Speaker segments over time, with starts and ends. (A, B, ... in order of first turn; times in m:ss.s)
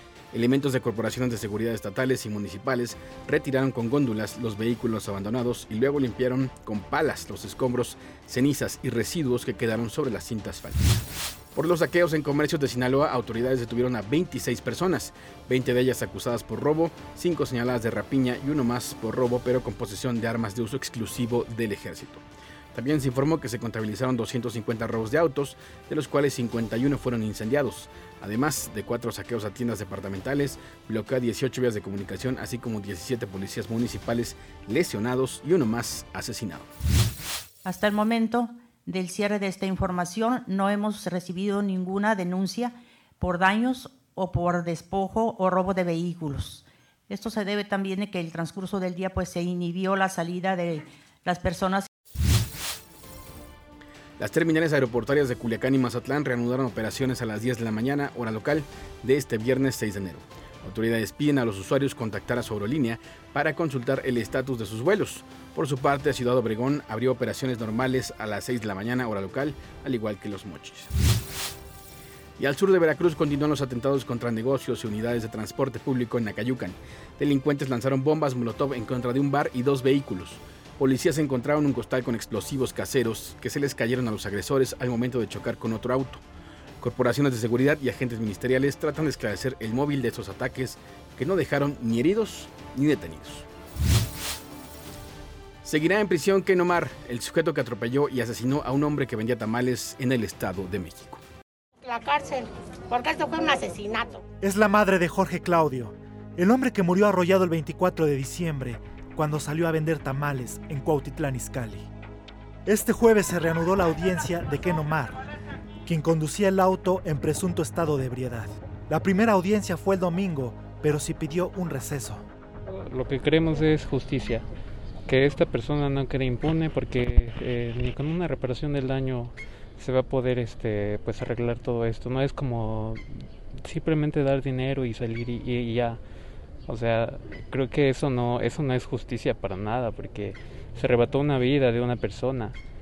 0:00.3-0:11.0 A
0:11.6-0:36.7 A
0:37.6-0:51.9 B
0:54.2-1:10.9 A
1:12.4-1:26.2 A
1:26.8-1:33.5 A
1:35.6-1:41.2 A
1:41.8-1:44.2 C
1:44.4-1:51.9 D
1:52.7-1:55.2 D
1:55.9-2:02.2 D
2:02.7-2:04.5 E
2:05.1-2:13.0 E
2:13.6-2:16.0 E
2:16.7-2:22.6 E